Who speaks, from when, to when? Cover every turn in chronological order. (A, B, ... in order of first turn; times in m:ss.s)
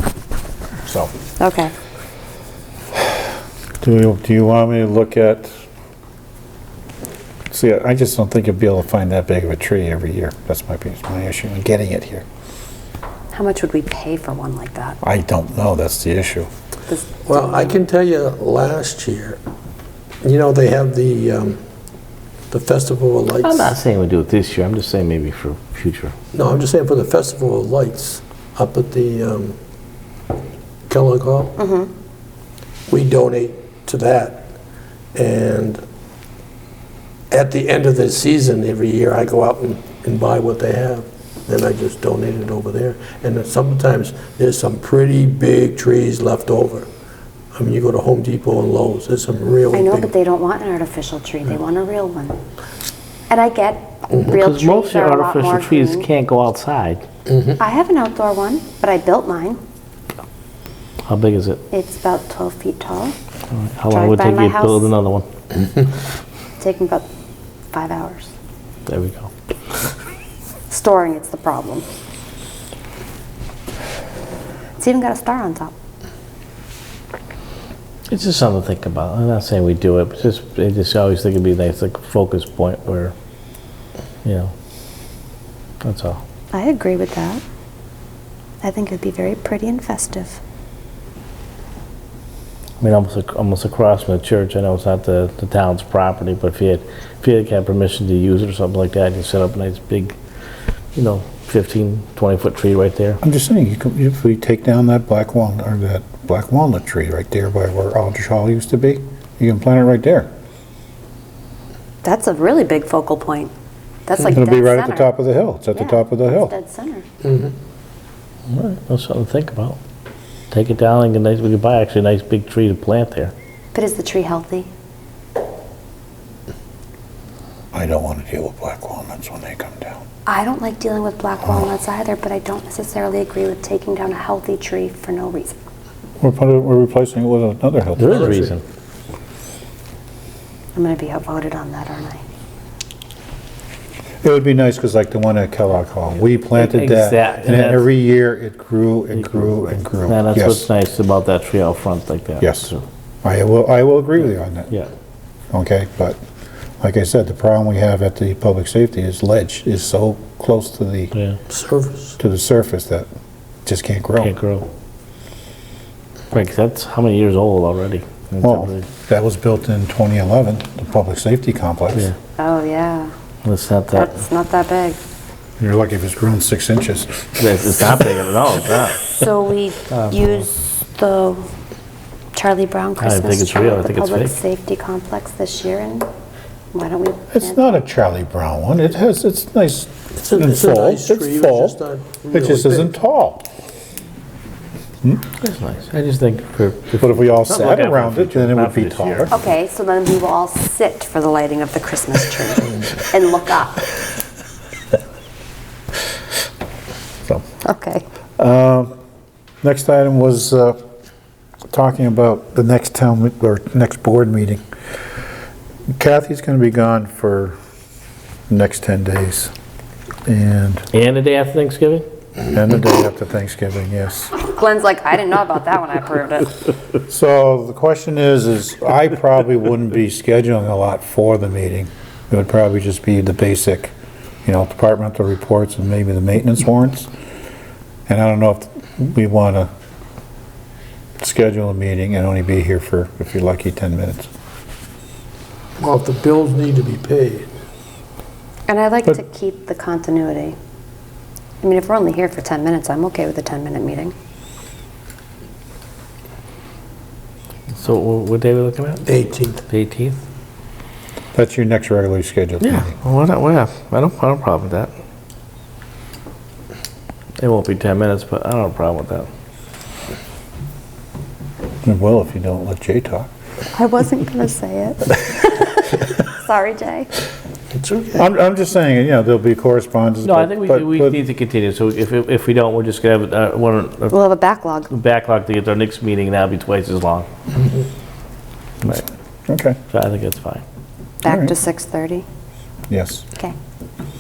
0:00.9-0:01.1 A
0:01.4-0:01.7 B
0:03.8-0:05.5 A
0:07.5-0:12.2 A
0:13.3-0:15.0 B
0:15.0-0:16.5 A
0:16.9-0:17.8 B
0:17.3-0:19.4 C
0:20.2-0:21.6 C
0:22.5-0:23.8 C
0:23.4-0:26.2 D
0:26.3-0:29.6 C
0:30.9-0:31.6 C
0:31.6-0:31.9 B
0:32.9-0:34.5 C
0:35.2-0:35.8 C
0:37.3-0:46.9 C
0:47.5-0:50.1 C
0:49.7-0:52.4 B
0:53.3-0:56.1 B
0:54.3-0:57.0 D
0:57.3-0:57.5 C
0:57.6-0:59.6 B
1:01.1-1:01.6 D
1:01.7-1:03.2 B
1:03.5-1:05.3 D
1:03.9-1:04.9 B
1:06.6-1:07.0 B
1:07.7-1:08.3 B
1:08.9-1:09.3 D
1:10.7-1:11.9 B
1:14.8-1:15.7 B
1:18.1-1:23.1 D
1:24.2-1:24.5 D
1:25.8-1:26.2 D
1:26.5-1:27.4 B
1:28.6-1:30.4 B
1:32.8-1:40.2 D
1:41.0-1:43.2 D
1:43.2-1:50.3 A
1:52.0-1:53.5 B
1:54.1-1:55.1 B
1:54.3-1:56.5 A
1:55.7-1:57.0 B
1:57.2-1:57.5 C
1:58.5-1:59.8 D
2:00.5-2:03.3 D
2:03.7-2:04.7 B
2:07.7-2:10.0 A
2:10.3-2:15.6 B
2:16.2-2:18.5 A
2:18.0-2:18.6 D
2:20.8-2:22.2 B
2:24.2-2:30.7 A
2:26.5-2:27.9 D
2:29.1-2:32.8 D
2:32.4-2:32.7 A
2:33.2-2:34.8 A
2:35.5-2:36.2 A
2:36.8-2:41.1 A
2:41.1-2:41.4 D
2:41.5-2:42.2 C
2:42.2-2:43.1 A
2:43.7-2:44.4 A
2:44.2-2:44.7 D
2:46.3-2:48.9 D
2:48.4-2:52.1 A
2:52.4-2:53.1 B
2:53.4-2:54.1 D
2:53.9-2:55.0 B
2:55.6-2:57.4 A
2:57.4-2:59.1 D
2:59.1-3:01.5 B
2:59.9-3:00.5 D
3:02.3-3:06.1 B
3:03.0-3:04.4 D
3:06.7-3:07.8 B
3:07.3-3:11.8 A
3:10.2-3:12.9 C
3:12.3-3:13.5 A
3:15.4-3:19.3 D
3:17.0-3:19.3 A
3:19.3-3:23.9 B
3:27.6-3:28.0 B
3:28.4-3:28.9 A
3:29.6-3:30.8 A
3:31.7-3:34.6 A
3:36.0-3:37.6 A
3:38.5-3:39.5 A
3:40.3-3:40.9 A
3:40.9-3:42.0 D
3:42.5-3:44.3 A
3:44.4-3:46.5 B
3:47.1-3:53.9 A
3:54.5-3:57.1 A
3:58.1-3:59.7 A
4:01.2-4:04.3 A
4:05.8-4:07.5 C
4:08.7-4:10.6 B
4:11.6-4:14.1 B
4:17.7-4:19.1 D
4:19.0-4:19.6 C
4:19.7-4:20.2 D
4:21.4-4:23.0 A
4:22.6-4:24.9 D
4:27.4-4:29.3 D
4:31.8-4:33.3 A
4:33.7-4:37.1 B
4:37.7-4:38.2 C
4:38.2-4:41.2 A
4:40.2-4:44.2 D
4:44.1-4:44.9 B
4:44.9-4:47.3 D
4:47.6-4:47.8 C
4:48.9-4:49.8 A
4:49.9-4:50.6 D
4:51.2-4:52.2 B
4:51.2-4:51.5 A
4:52.9-4:53.3 A